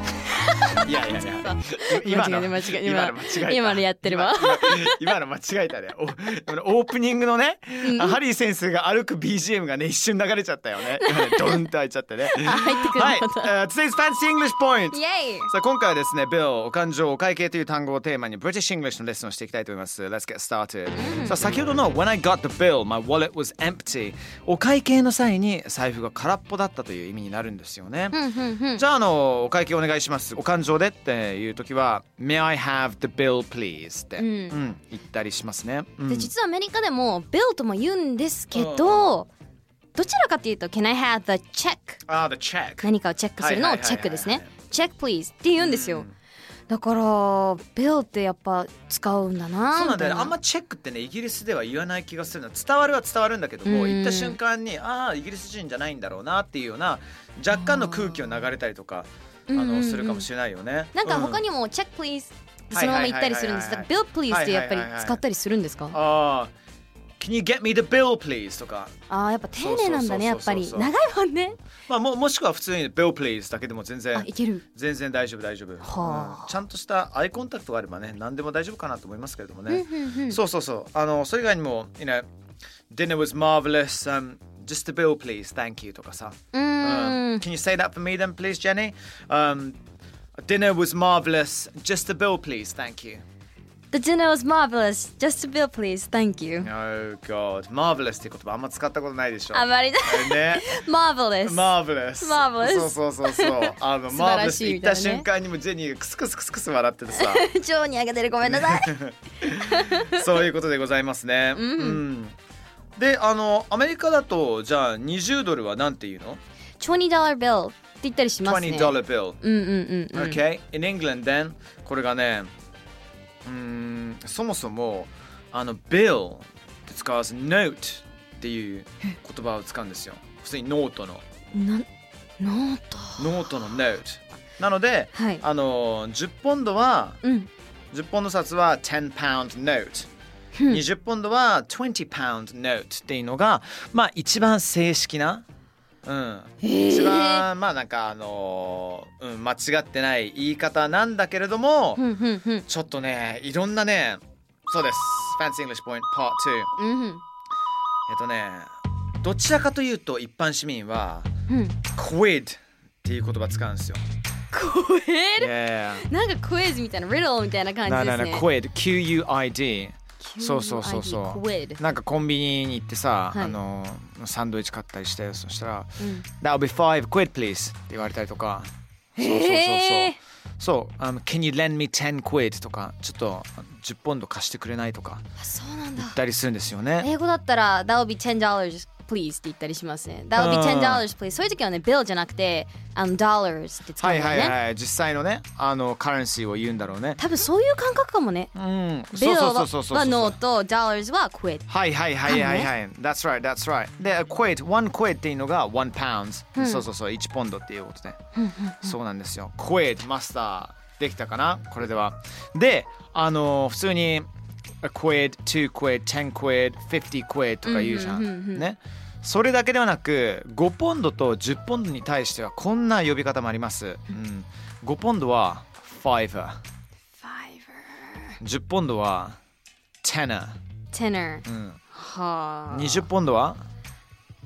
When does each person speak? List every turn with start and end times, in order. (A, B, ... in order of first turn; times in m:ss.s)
0:00.6-0:05.1 A
0:00.7-0:28.2 B
0:07.8-0:08.2 A
0:10.9-0:11.6 A
0:12.3-0:13.5 A
0:14.9-0:15.5 A
0:21.0-0:21.5 A
0:28.1-0:28.8 A
0:28.7-0:36.3 B
0:34.2-0:34.6 A
0:36.0-0:39.3 A
0:38.5-0:39.2 B
0:40.0-0:42.0 A
0:42.1-0:44.5 B
0:42.8-0:46.1 A
0:45.6-0:46.1 B
0:46.7-0:50.3 A
0:49.7-1:01.4 B
0:53.6-0:54.4 A
0:57.6-0:58.1 A
0:59.5-1:00.3 A
1:00.9-1:06.0 A
1:02.7-1:05.2 B
1:05.9-1:06.5 B
1:07.2-1:08.9 B
1:09.1-1:11.6 A
1:09.6-1:10.9 B
1:11.9-1:22.3 B
1:14.1-1:14.6 A
1:15.8-1:16.5 A
1:19.7-1:20.4 A
1:22.9-1:29.8 B
1:26.5-1:27.4 A
1:30.4-1:33.2 B
1:33.9-1:36.7 A
1:36.6-1:40.6 B
1:39.5-1:45.3 A
1:41.4-1:47.5 B
1:47.1-1:50.3 A
1:48.5-1:52.4 B
1:51.6-1:52.0 A
1:53.0-1:56.4 B
1:56.8-2:00.4 A
1:58.4-1:59.4 B
2:00.1-2:02.5 B
2:03.4-2:11.2 B
2:11.5-2:11.9 A
2:12.4-2:13.5 A
2:13.2-2:17.2 B
2:15.1-2:15.4 A
2:17.2-2:17.5 A
2:17.9-2:20.1 B
2:20.6-2:20.8 A
2:20.7-2:25.4 B
2:26.1-2:32.0 B
2:26.6-2:27.4 A
2:32.0-2:32.7 A
2:32.7-2:36.7 B
2:36.8-2:37.2 A
2:38.1-2:38.7 B
2:39.2-2:41.3 B
2:41.5-2:41.8 A
2:41.9-2:44.0 B
2:44.5-2:48.5 A
2:45.4-2:46.1 B
2:47.8-3:05.2 B
2:50.2-2:51.8 A
2:56.0-2:56.2 A
2:59.2-3:00.2 A
3:05.4-3:06.2 A
3:06.0-3:07.1 B
3:07.0-3:14.6 A
3:10.4-3:11.1 B
3:14.0-3:17.2 B
3:17.2-3:18.5 A
3:18.6-3:20.4 B
3:19.1-3:21.7 A
3:21.7-3:28.2 B
3:22.2-3:22.7 A
3:26.6-3:26.9 A
3:28.4-3:29.0 A
3:28.8-3:34.3 B
3:34.8-3:46.6 B
3:37.6-3:38.7 A
3:47.2-3:48.3 A
3:48.4-3:49.4 B
3:50.0-3:50.6 B
3:50.9-3:53.1 A
3:51.4-3:51.8 B
3:52.7-3:53.6 B